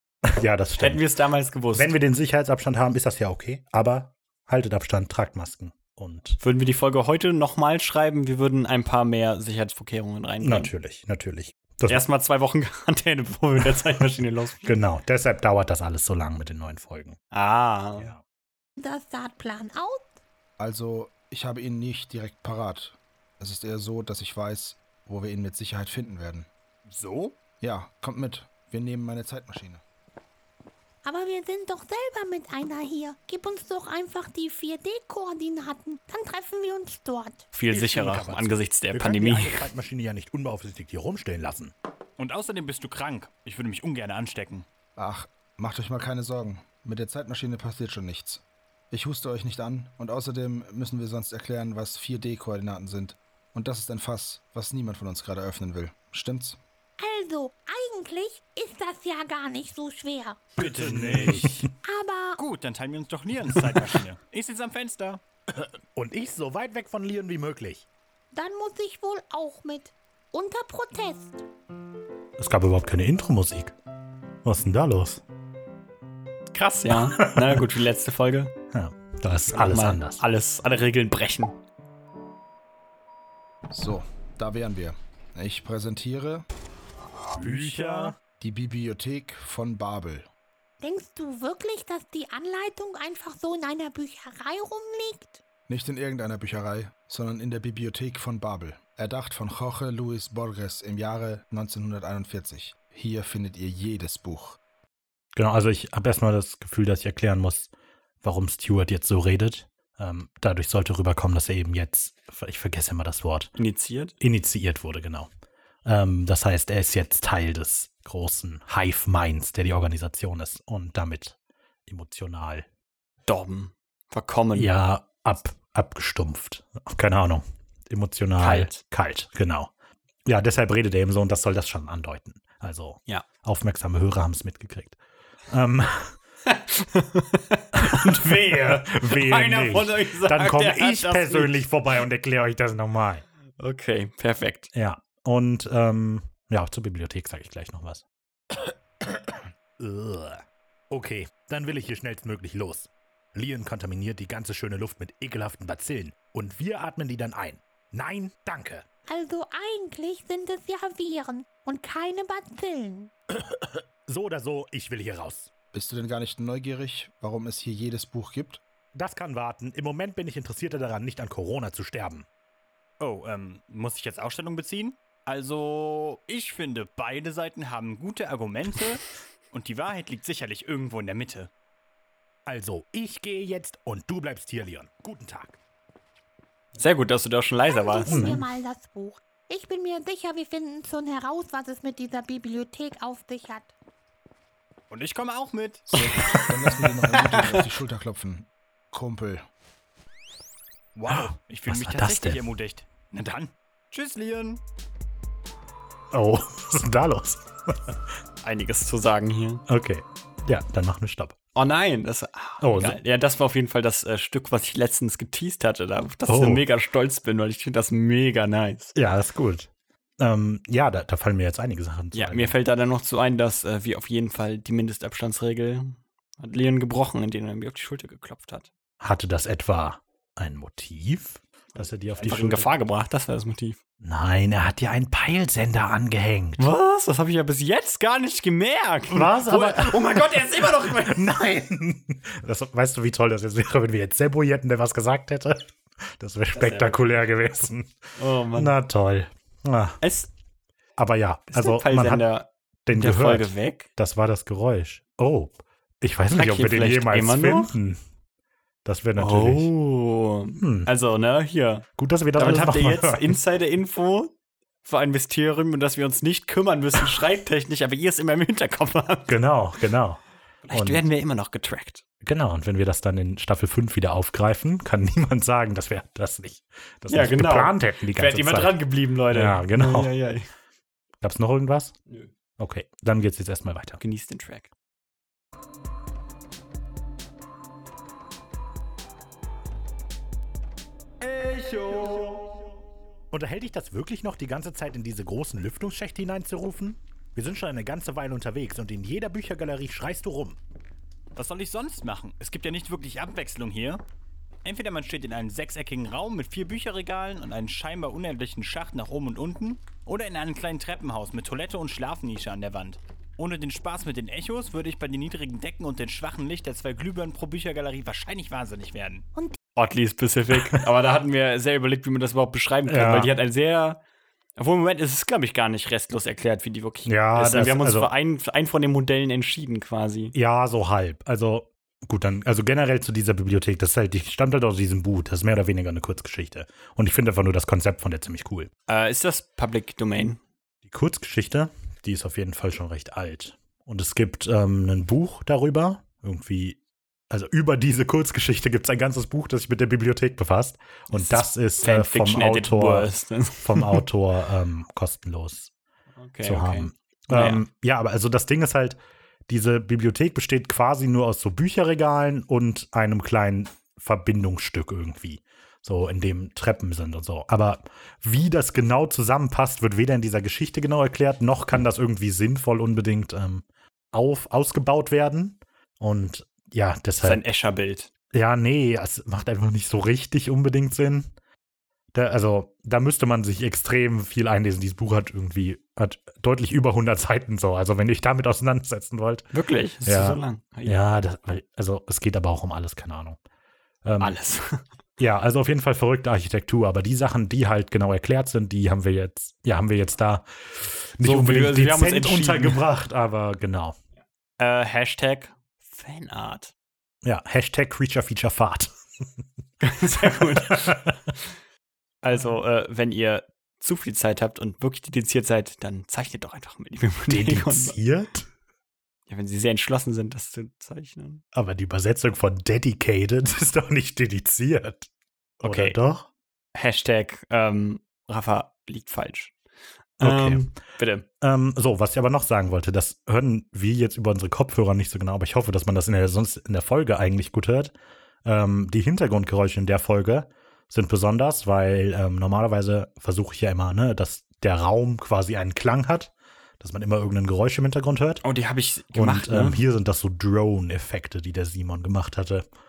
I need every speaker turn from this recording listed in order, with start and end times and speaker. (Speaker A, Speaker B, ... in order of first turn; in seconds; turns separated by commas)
Speaker A: 0.2-1.1, Speaker B: 0.8-1.9, Speaker A: 1.7-6.4, Speaker B: 6.4-10.7, Speaker A: 10.4-12.1, Speaker B: 11.9-14.8, Speaker A: 14.6-17.2, Speaker B: 17.3-18.1, Speaker A: 18.0-18.2, Speaker C: 18.8-20.2, Speaker D: 20.6-26.5, Speaker E: 26.9-27.3, Speaker D: 27.6-29.8, Speaker C: 31.0-37.5, Speaker B: 37.5-39.7, Speaker A: 37.7-41.7, Speaker E: 42.2-44.7, Speaker D: 45.0-56.6, Speaker C: 57.0-60.5, Speaker E: 60.6-61.7, Speaker A: 60.7-61.7, Speaker C: 61.8-62.4, Speaker E: 62.4-65.2, Speaker A: 66.0-67.9, Speaker C: 68.3-71.4, Speaker A: 72.4-73.8, Speaker A: 74.4-75.2, Speaker B: 76.5-78.5, Speaker A: 76.9-77.7, Speaker A: 78.7-80.2, Speaker B: 79.5-81.6, Speaker D: 83.7-86.5, Speaker A: 87.4-88.1, Speaker E: 87.4-88.1, Speaker D: 88.4-90.3, Speaker C: 90.8-95.4, Speaker D: 95.7-104.6, Speaker A: 105.3-107.7, Speaker A: 108.2-113.5, Speaker B: 113.6-114.1, Speaker A: 114.2-115.3, Speaker A: 115.8-121.4, Speaker A: 121.9-122.7, Speaker B: 123.3-124.7, Speaker A: 124.5-129.7, Speaker B: 128.4-128.8, Speaker A: 130.2-136.2, Speaker B: 136.5-141.7, Speaker A: 137.8-143.2, Speaker B: 143.6-144.7, Speaker A: 144.7-148.1, Speaker A: 149.8-158.8, Speaker C: 159.1-163.1, Speaker A: 164.1-165.5, Speaker D: 165.7-168.6, Speaker A: 168.9-172.3, Speaker E: 173.0-181.5, Speaker A: 182.5-185.6, Speaker B: 186.8-188.4, Speaker C: 187.7-193.7, Speaker A: 188.1-188.4, Speaker E: 194.9-195.9, Speaker D: 195.9-199.4, Speaker E: 200.9-204.6, Speaker A: 201.1-202.5, Speaker A: 206.1-207.9, Speaker B: 208.4-209.6, Speaker A: 209.7-211.4, Speaker B: 211.6-218.9, Speaker A: 212.6-213.0, Speaker A: 216.2-216.6, Speaker A: 218.9-222.6, Speaker B: 222.1-228.7, Speaker A: 229.0-232.7, Speaker B: 231.8-233.8, Speaker A: 234.0-236.7, Speaker B: 236.6-241.3, Speaker A: 239.1-247.9, Speaker B: 246.6-247.1, Speaker B: 248.2-248.8, Speaker A: 248.5-250.0, Speaker B: 250.0-250.3, Speaker A: 251.0-252.3, Speaker B: 251.5-253.9, Speaker A: 252.9-258.0, Speaker B: 256.4-257.7, Speaker A: 258.9-259.7, Speaker B: 259.2-261.9, Speaker A: 260.6-260.9, Speaker A: 262.0-263.4, Speaker B: 262.4-264.3, Speaker B: 264.9-269.4, Speaker A: 269.3-270.2, Speaker B: 270.6-272.0, Speaker A: 270.7-271.0, Speaker A: 272.2-280.1, Speaker B: 277.1-280.5, Speaker A: 281.2-281.9, Speaker A: 282.6-284.0, Speaker B: 284.0-284.7, Speaker B: 291.5-292.0, Speaker E: 291.9-292.2, Speaker A: 293.3-300.6, Speaker E: 301.4-304.0, Speaker E: 304.6-319.2, Speaker B: 319.8-324.0, Speaker A: 322.9-323.3, Speaker B: 324.6-330.3, Speaker A: 327.1-328.1, Speaker A: 330.3-338.7, Speaker B: 338.9-340.4, Speaker A: 340.8-346.8, Speaker A: 347.3-355.7, Speaker B: 351.1-354.0, Speaker B: 356.2-357.6, Speaker A: 356.4-359.0, Speaker A: 359.5-377.4, Speaker B: 377.2-378.1, Speaker A: 378.3-381.3, Speaker A: 382.1-389.5, Speaker B: 389.5-391.0, Speaker A: 390.0-393.4, Speaker A: 394.0-394.4, Speaker B: 394.2-394.8, Speaker A: 395.2-404.0, Speaker B: 401.2-402.9, Speaker B: 404.6-406.7, Speaker A: 407.2-408.9, Speaker B: 409.8-411.1, Speaker A: 410.2-411.1, Speaker B: 412.2-418.0, Speaker A: 417.3-418.5, Speaker B: 419.3-421.4, Speaker A: 421.5-425.1, Speaker B: 425.6-426.0, Speaker A: 425.6-426.3, Speaker B: 426.8-429.5, Speaker A: 430.2-430.7, Speaker B: 430.2-431.2, Speaker A: 431.4-448.4, Speaker B: 448.4-449.8, Speaker A: 449.1-452.7